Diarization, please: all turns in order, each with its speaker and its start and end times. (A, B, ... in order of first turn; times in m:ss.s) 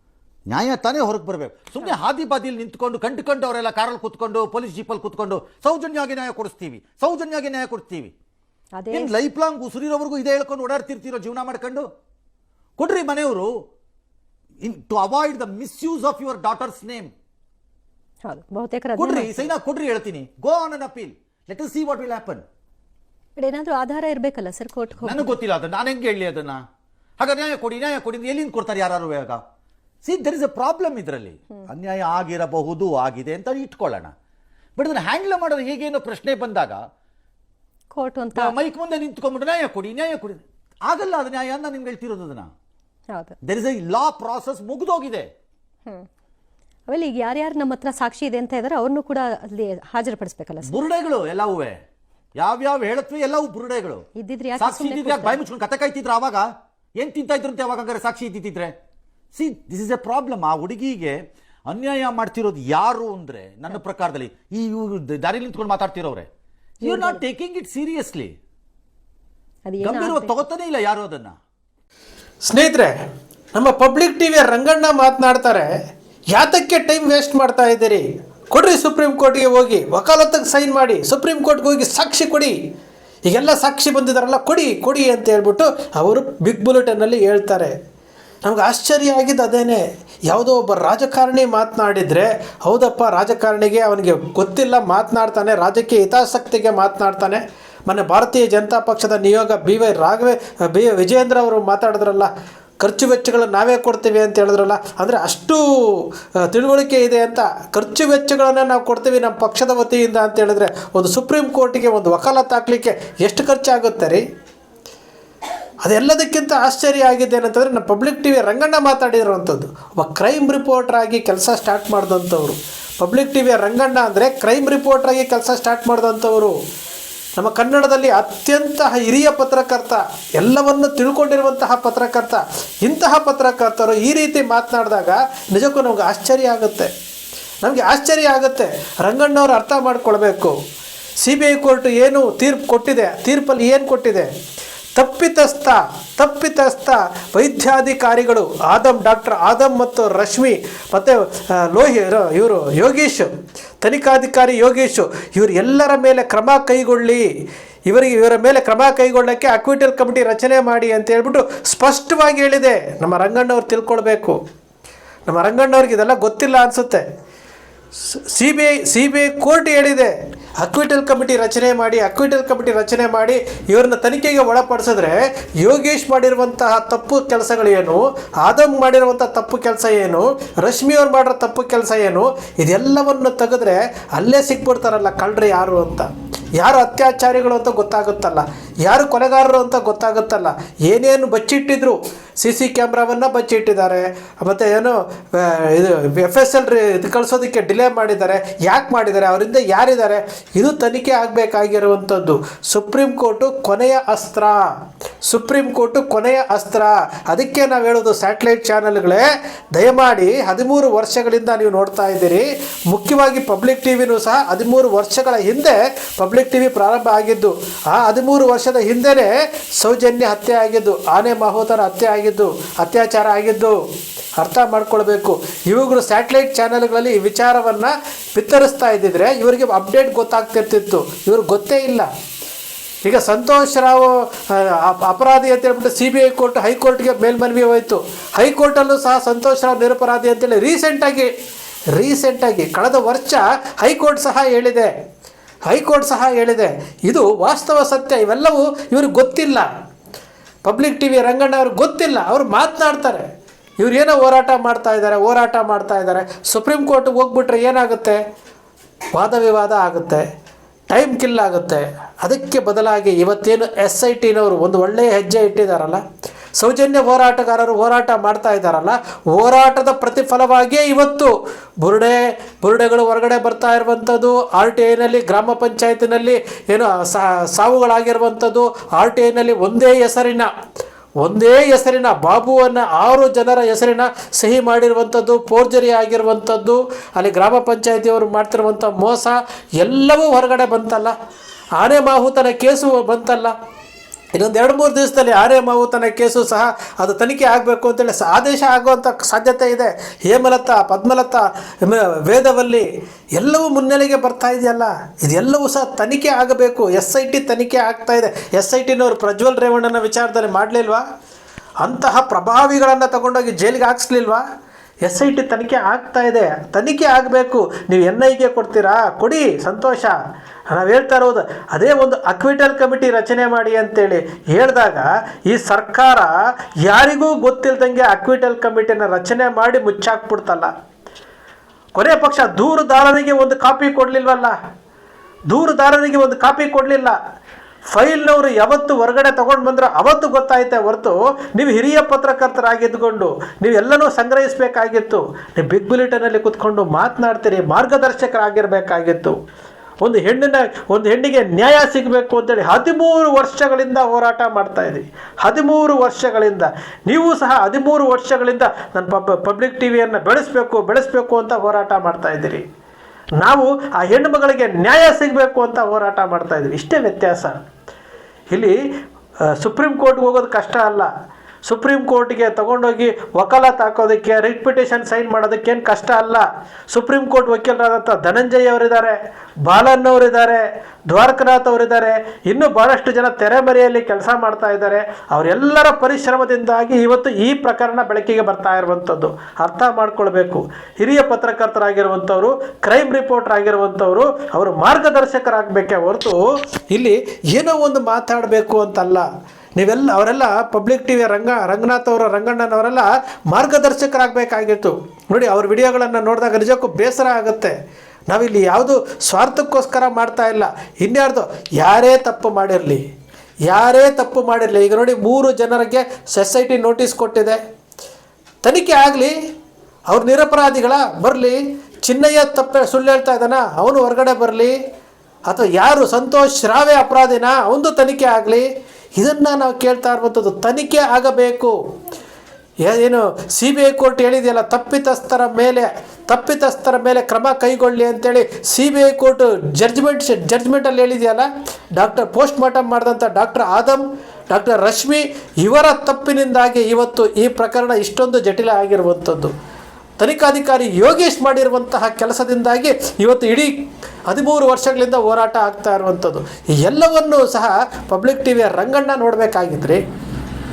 0:00.5-0:08.1 A
0:08.8-0:09.1 B
0:08.9-0:11.9 A
0:12.8-0:13.5 A
0:14.6-0:17.1 A
0:18.2-0:19.5 B
0:19.0-0:22.4 A
0:23.4-0:25.4 B
0:25.0-0:26.6 A
0:27.2-0:29.4 A
0:30.0-0:34.1 A
0:34.8-0:36.8 A
0:37.9-0:38.6 B
0:38.3-0:42.5 A
0:43.1-0:43.4 B
0:43.4-0:45.3 A
0:46.9-0:50.8 B
0:50.6-0:51.8 A
0:52.4-0:54.1 A
0:54.2-0:55.4 B
0:54.6-0:58.7 A
0:59.4-1:06.3 A
1:06.8-1:07.2 B
1:06.8-1:08.3 A
1:09.7-1:10.4 B
1:09.8-1:11.4 A
1:12.5-1:12.9 C
1:13.6-1:15.7 C
1:16.3-1:22.5 C
1:23.3-1:27.7 C
1:28.4-1:54.2 C
1:55.8-2:06.5 C
2:07.4-2:16.9 C
2:17.6-2:20.5 C
2:21.2-2:24.3 C
2:25.0-2:33.3 C
2:33.8-2:37.2 C
2:37.9-2:44.4 C
2:45.3-2:47.0 C
2:48.3-3:24.6 C
3:25.3-3:43.7 C
3:44.4-3:52.1 C
3:53.0-4:01.3 C
4:02.0-4:04.9 C
4:05.7-4:09.7 C
4:10.6-4:13.3 C
4:13.8-4:18.2 C
4:19.2-4:20.2 C
4:20.9-4:26.0 C
4:26.6-4:40.5 C
4:41.2-4:51.1 C
4:51.8-4:53.5 C
4:54.4-5:02.9 C
5:03.4-5:11.0 C
5:11.8-5:14.4 C
5:15.0-5:20.2 C
5:20.7-5:26.3 C
5:26.9-5:30.7 C
5:32.0-5:34.5 C
5:35.5-5:37.1 C
5:37.9-5:49.4 C
5:50.0-6:02.6 C
6:03.4-6:07.6 C
6:09.6-6:11.1 C
6:11.7-6:36.4 C
6:36.9-6:39.2 C
6:39.8-6:47.8 C
6:48.3-6:53.0 C
6:53.7-6:57.6 C
6:58.6-6:59.3 C
7:00.1-7:04.7 C
7:05.5-7:08.6 C
7:09.2-7:11.7 C
7:12.9-7:29.5 C
7:30.2-7:33.7 C
7:34.3-7:40.0 C